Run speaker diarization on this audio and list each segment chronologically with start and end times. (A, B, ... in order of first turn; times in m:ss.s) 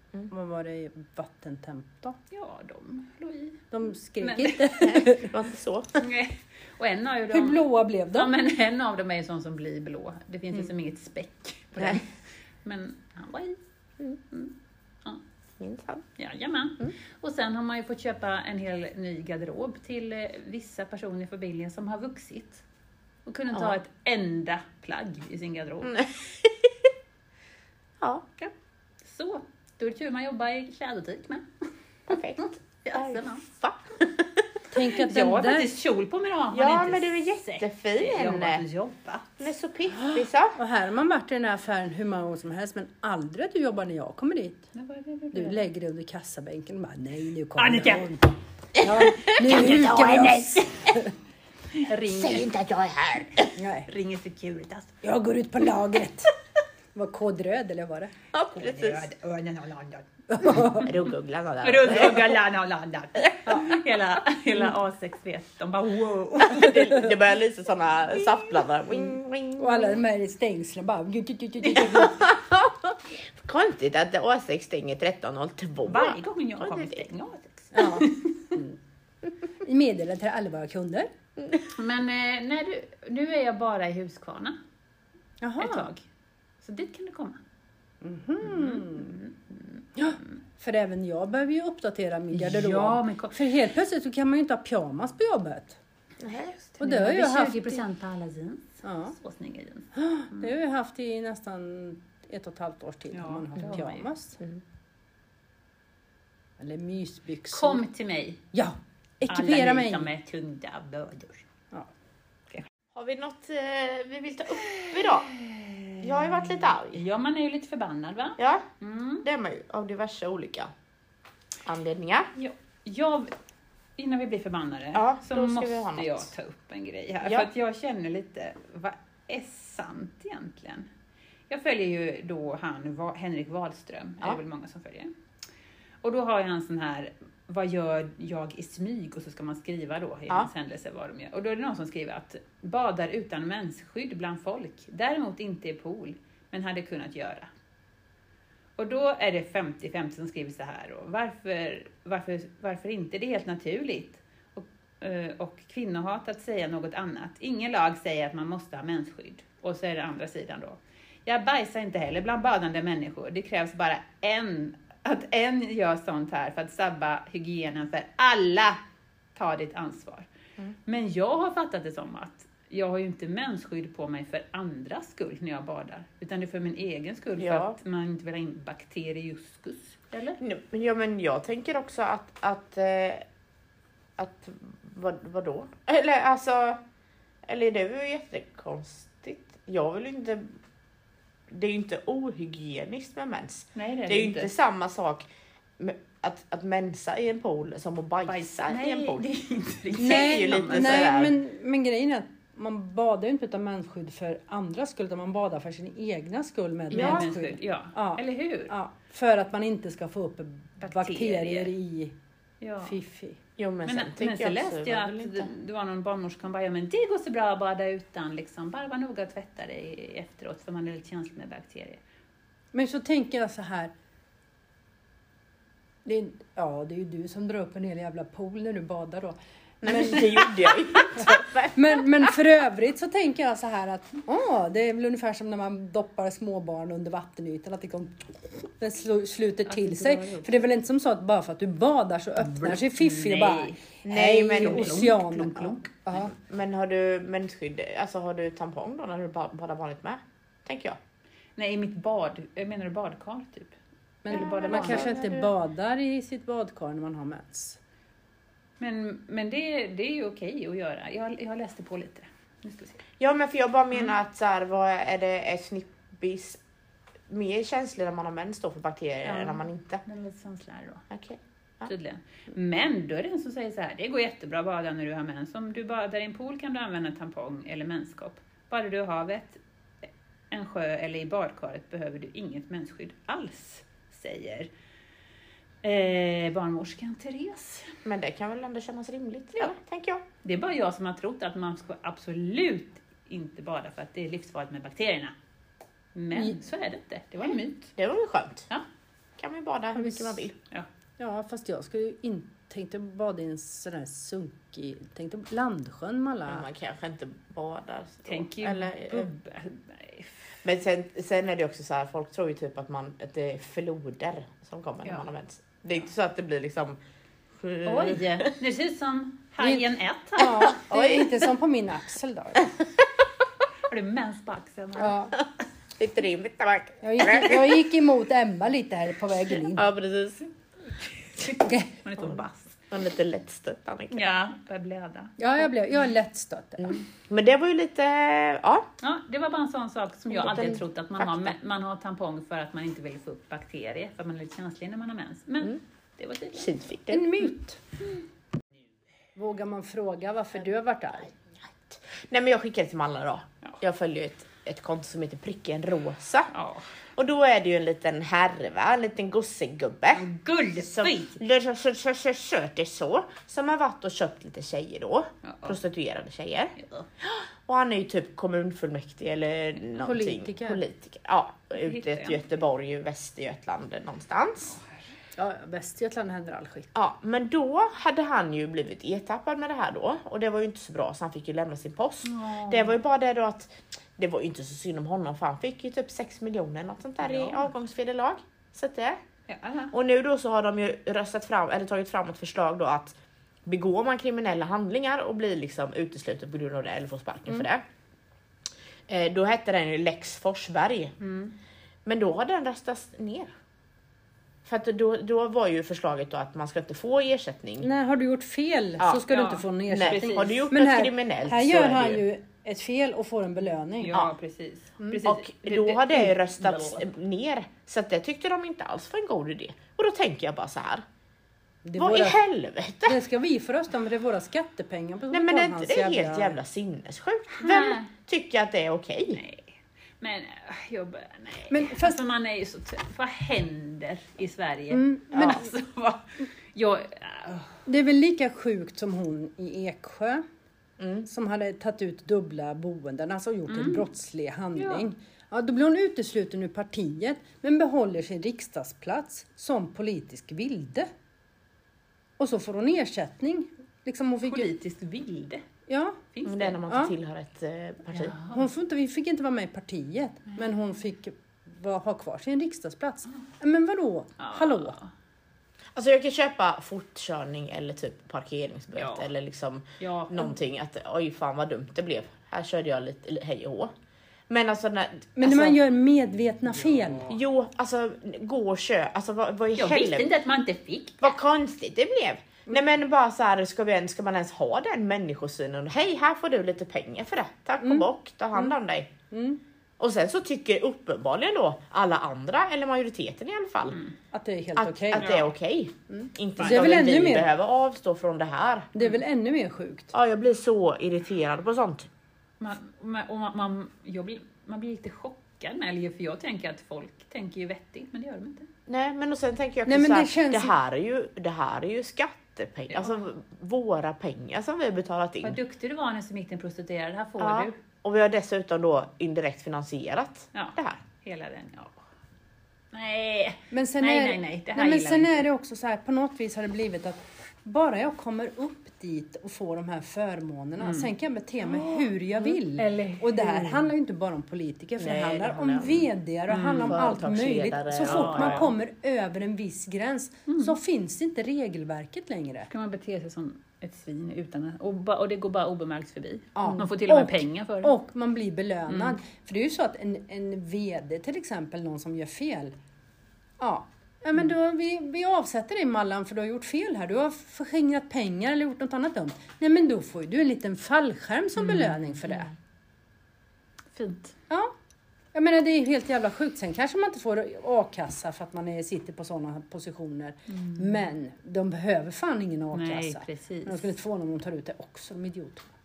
0:00.3-0:02.2 A
0:02.3-0:05.0 B
0:03.7-0:05.3 A
0:04.8-0:06.0 C
0:06.0-0:12.1 B
0:07.3-0:08.3 A
0:12.6-0:13.6 B
0:14.3-0:15.2 B
0:15.6-0:16.0 C
0:16.2-0:22.6 B
0:23.2-0:26.0 B
0:25.8-0:26.7 C
0:28.0-0:28.2 C
0:29.0-0:31.5 B
0:32.1-0:34.4 C
0:32.1-0:33.4 B
0:34.7-0:35.7 A
0:34.9-0:39.4 B
0:36.5-0:38.6 C
0:39.4-0:40.6 C
0:40.6-0:44.7 A
0:44.7-0:45.6 B
0:45.3-0:51.1 A
0:47.6-0:48.1 B
0:48.8-0:50.6 C
0:49.3-0:50.4 B
0:51.7-0:52.5 B
0:52.1-0:53.5 C
0:53.6-0:53.9 A
0:53.9-0:55.0 B
0:55.0-0:56.3 A
0:56.9-0:58.1 A
0:58.3-0:59.1 C
0:58.5-1:00.8 B
1:00.3-1:00.9 A
1:00.7-1:02.4 C
1:01.6-1:06.8 B
1:06.4-1:10.0 C
1:09.6-1:12.3 A
1:11.9-1:17.0 C
1:15.8-1:18.5 B
1:17.7-1:18.8 A
1:19.6-1:21.1 A
1:21.7-1:24.6 B
1:25.4-1:25.9 A
1:25.6-1:26.0 B
1:26.6-1:27.4 B
1:28.0-1:29.1 A
1:28.4-1:30.3 B
1:30.0-1:35.8 A
1:32.3-1:33.4 B
1:36.2-1:36.5 C
1:36.6-1:40.5 B
1:36.8-1:37.8 A
1:38.8-1:39.1 A
1:39.9-1:44.4 A
1:43.1-1:44.0 B
1:46.6-1:47.8 A
1:47.5-1:48.4 B
1:48.5-1:50.1 A
1:49.3-1:51.5 B
1:52.9-1:55.3 C
1:54.6-1:59.2 B
1:56.0-1:57.0 C
1:58.4-1:58.6 C
1:59.2-2:00.7 C
2:01.6-2:02.3 C
2:02.3-2:03.3 B
2:04.0-2:10.9 B
2:04.9-2:06.3 C
2:11.5-2:15.1 B
2:16.0-2:27.5 B
2:28.8-2:48.8 B
2:49.3-2:50.3 B
2:50.8-3:00.4 B
2:57.4-2:57.7 C
3:00.4-3:03.2 C
3:04.2-3:06.8 C
3:07.4-3:10.5 C
3:11.5-3:15.2 C
3:13.7-3:14.5 B
3:15.8-3:19.2 C
3:18.2-3:21.1 B
3:19.9-3:21.3 C
3:20.0-3:32.2 A
3:26.9-3:28.7 B
3:26.9-3:27.2 C
3:30.8-3:31.7 B
3:32.6-3:33.0 B
3:32.8-3:33.4 A
3:33.6-3:35.5 C
3:33.8-3:42.0 B
3:42.7-3:43.9 A
3:46.0-4:06.3 A
3:49.8-3:52.2 C
3:59.6-4:00.6 B
4:02.4-4:03.8 B
4:04.0-4:11.0 C
4:04.6-4:05.9 B
4:11.6-4:13.8 B
4:14.2-4:17.8 A
4:14.3-4:15.1 B
4:14.3-4:15.5 C
4:18.8-4:23.0 B
4:23.2-4:26.6 C
4:27.3-4:30.0 C
4:29.2-4:31.0 B
4:31.1-4:31.9 C
4:31.8-4:39.6 B
4:40.5-4:44.7 B
4:45.8-4:47.9 B
4:48.0-4:50.2 C
4:50.4-4:55.3 B
4:56.1-4:57.9 B
4:58.0-4:58.7 C
4:59.4-5:00.6 C
4:59.9-5:00.4 A
5:01.2-5:06.6 A
5:06.5-5:09.3 C
5:08.2-5:10.5 B
5:10.6-5:17.0 C
5:17.6-5:18.5 C
5:17.8-5:20.7 B
5:20.4-5:22.7 A
5:20.7-5:21.4 C
5:23.8-5:25.3 B
5:25.0-5:25.3 A
5:26.0-5:27.7 C
5:27.0-5:29.8 A
5:29.7-5:30.5 C
5:31.4-5:32.8 B
5:31.6-5:31.9 A
5:32.9-5:34.2 C
5:34.1-5:35.3 B
5:35.4-5:36.9 A
5:36.8-5:38.9 C
5:39.0-5:46.7 B
5:40.3-5:41.5 C
5:46.6-5:47.2 C
5:47.1-5:47.8 A
5:49.4-5:51.3 A
5:51.8-5:56.5 C
5:56.5-5:56.9 B
5:57.2-6:00.2 C
6:00.1-6:01.4 B
6:00.8-6:14.7 C
6:05.4-6:05.8 B
6:06.8-6:07.1 B
6:10.0-6:10.8 A
6:11.8-6:12.4 B
6:15.4-6:16.9 A
6:16.9-6:29.2 C
6:22.2-6:23.0 B
6:27.2-6:27.7 B
6:29.5-6:29.9 B
6:29.9-6:37.8 C
6:39.1-6:41.1 C
6:41.2-6:41.5 B
6:42.0-6:43.5 C
6:44.6-6:47.9 C
6:47.8-6:54.2 A
6:49.3-6:50.6 B
6:49.9-6:52.2 C
6:54.0-6:57.0 B
6:55.2-7:01.0 C
7:01.8-7:02.4 A
7:02.0-7:03.2 C
7:03.0-7:06.6 A
7:05.3-7:09.4 C
7:07.6-7:08.1 B
7:09.3-7:17.7 B
7:11.7-7:12.2 A
7:14.9-7:15.7 A
7:15.3-7:15.6 C
7:17.8-7:20.4 A
7:21.0-7:21.2 C
7:21.2-7:31.1 A
7:23.7-7:24.1 B
7:24.8-7:25.0 B
7:32.4-7:34.7 A
7:34.4-7:35.6 B
7:35.9-7:36.2 A
7:36.3-7:36.8 B
7:36.4-7:38.4 C
7:38.1-7:38.6 B
7:38.5-7:45.0 A
7:44.4-7:45.1 B
7:45.9-7:53.9 C
7:48.9-7:49.3 B
7:50.0-7:50.5 B
7:54.5-7:55.8 C
7:55.4-7:57.4 A
7:57.2-8:00.3 C
7:59.8-8:01.3 B
8:01.2-8:09.1 C
8:07.8-8:08.7 A
8:09.3-8:09.6 A
8:10.0-8:14.0 C
8:14.3-8:15.3 A
8:14.8-8:18.9 C
8:15.2-8:15.5 B
8:16.1-8:17.5 A
8:18.9-8:20.1 A
8:20.1-8:22.1 C
8:22.6-8:28.7 B
8:28.9-8:35.6 C
8:29.8-8:30.7 A
8:32.9-8:33.2 B
8:35.4-8:37.7 B
8:37.4-8:41.0 C
8:40.5-8:42.0 B
8:42.9-8:45.4 B
8:43.7-9:02.7 A
8:50.8-8:51.1 B
8:51.7-8:53.3 B
8:55.0-8:56.1 C
8:56.5-8:57.0 B
8:56.7-8:58.7 C
8:58.0-8:58.6 B
9:00.5-9:00.8 B
9:02.7-9:07.9 B
9:06.6-9:12.7 A
9:08.9-9:09.2 B
9:13.6-9:22.5 A
9:23.9-9:24.3 B
9:25.3-9:35.7 A
9:30.5-9:30.9 B
9:32.7-9:33.8 B